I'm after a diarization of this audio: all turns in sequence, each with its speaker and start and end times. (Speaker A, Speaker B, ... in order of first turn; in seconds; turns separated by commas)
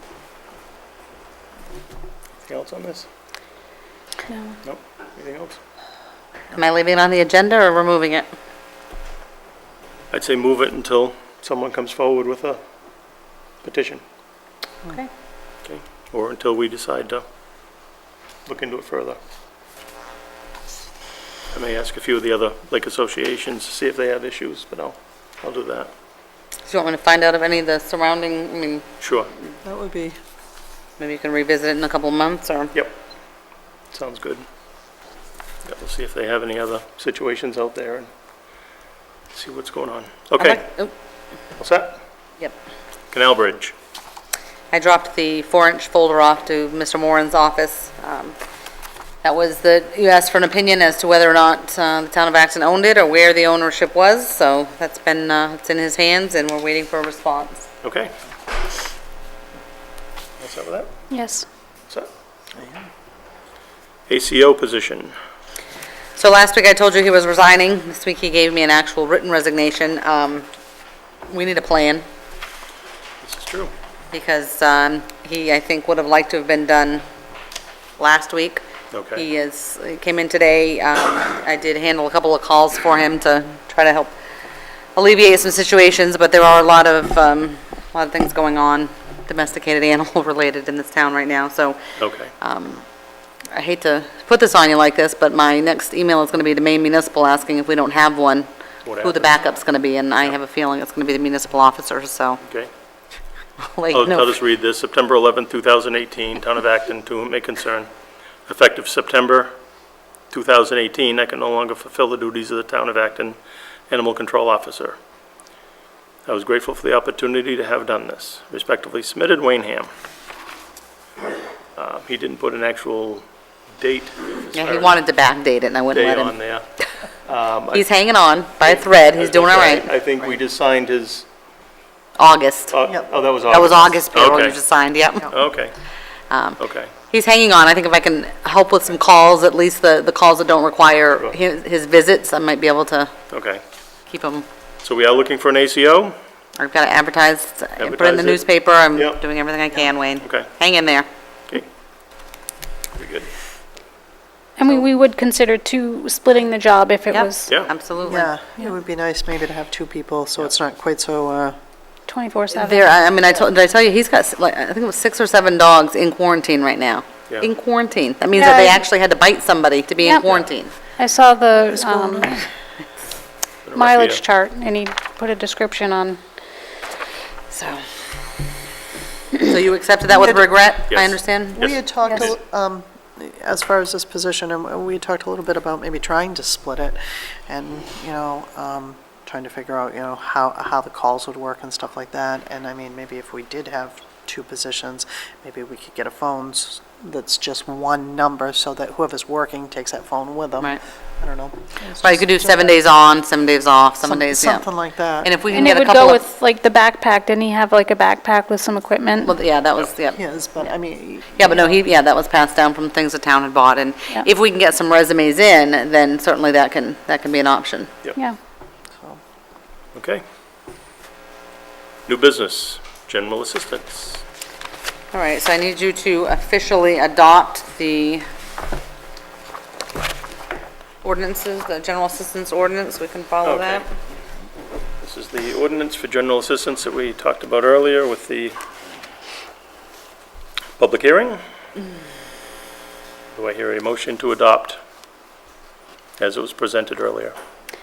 Speaker A: 2.5-3.1, Speaker B: 4.2-4.5, Speaker A: 4.6-5.6, Speaker C: 6.5-8.3, Speaker A: 10.1-12.6, Speaker A: 13.6-14.0, Speaker A: 15.6-17.2, Speaker A: 18.4-19.2, Speaker A: 21.5-25.9, Speaker C: 26.7-28.9, Speaker A: 29.0-29.3, Speaker D: 29.6-30.2, Speaker C: 31.0-32.7, Speaker A: 33.9-34.4, Speaker A: 35.6-38.1, Speaker A: 39.3-40.6, Speaker C: 40.4-40.9, Speaker A: 41.6-42.0, Speaker A: 43.1-43.7, Speaker C: 44.7-48.4, Speaker C: 49.2-57.6, Speaker A: 57.8-58.1, Speaker A: 60.4-60.9, Speaker B: 61.1-61.5, Speaker D: 62.5-62.9, Speaker A: 64.1-65.1, Speaker C: 66.2-70.5, Speaker C: 71.3-72.0, Speaker A: 73.2-73.7, Speaker C: 74.1-77.0, Speaker C: 78.0-78.6, Speaker A: 78.9-79.2, Speaker C: 79.1-84.1, Speaker C: 84.9-91.8, Speaker A: 92.0-92.3, Speaker C: 92.4-92.8, Speaker C: 93.5-98.5, Speaker A: 98.8-99.3, Speaker C: 99.0-102.4, Speaker A: 102.4-102.7, Speaker C: 103.6-104.3, Speaker A: 103.9-107.9, Speaker A: 108.5-109.5, Speaker A: 110.3-113.4, Speaker A: 113.9-115.0, Speaker A: 116.2-119.9, Speaker A: 121.8-123.2, Speaker A: 123.7-125.0, Speaker C: 124.5-126.8, Speaker A: 125.9-126.7, Speaker A: 127.2-127.9, Speaker C: 127.7-129.9, Speaker A: 128.6-131.2, Speaker C: 132.2-132.8, Speaker A: 132.7-134.6, Speaker C: 133.4-135.3, Speaker A: 135.3-135.7, Speaker C: 136.3-143.1, Speaker A: 136.6-136.9, Speaker A: 143.3-143.6, Speaker C: 144.1-144.4, Speaker A: 144.8-146.1, Speaker C: 146.6-151.1, Speaker A: 147.8-149.2, Speaker A: 150.2-150.5, Speaker A: 152.9-153.3, Speaker B: 154.6-157.5, Speaker C: 157.1-158.3, Speaker D: 158.0-161.6, Speaker B: 162.1-162.9, Speaker C: 162.5-170.7, Speaker B: 168.3-168.8, Speaker B: 170.0-170.2, Speaker B: 171.0-172.4, Speaker D: 171.7-172.4, Speaker A: 173.7-174.2, Speaker B: 173.7-176.2, Speaker C: 177.5-177.8, Speaker C: 179.4-181.6, Speaker D: 180.1-180.5, Speaker A: 180.9-181.8, Speaker D: 181.6-202.8, Speaker C: 202.0-204.7, Speaker D: 204.0-205.3, Speaker C: 205.2-206.2, Speaker B: 205.5-209.3, Speaker C: 209.2-210.2, Speaker D: 210.1-211.7, Speaker C: 211.3-217.9, Speaker A: 219.9-220.2, Speaker A: 222.1-224.2, Speaker C: 225.1-228.2, Speaker C: 231.0-233.8, Speaker A: 233.4-233.8, Speaker A: 235.0-238.6, Speaker A: 240.8-241.4, Speaker A: 243.3-244.8, Speaker A: 246.2-247.3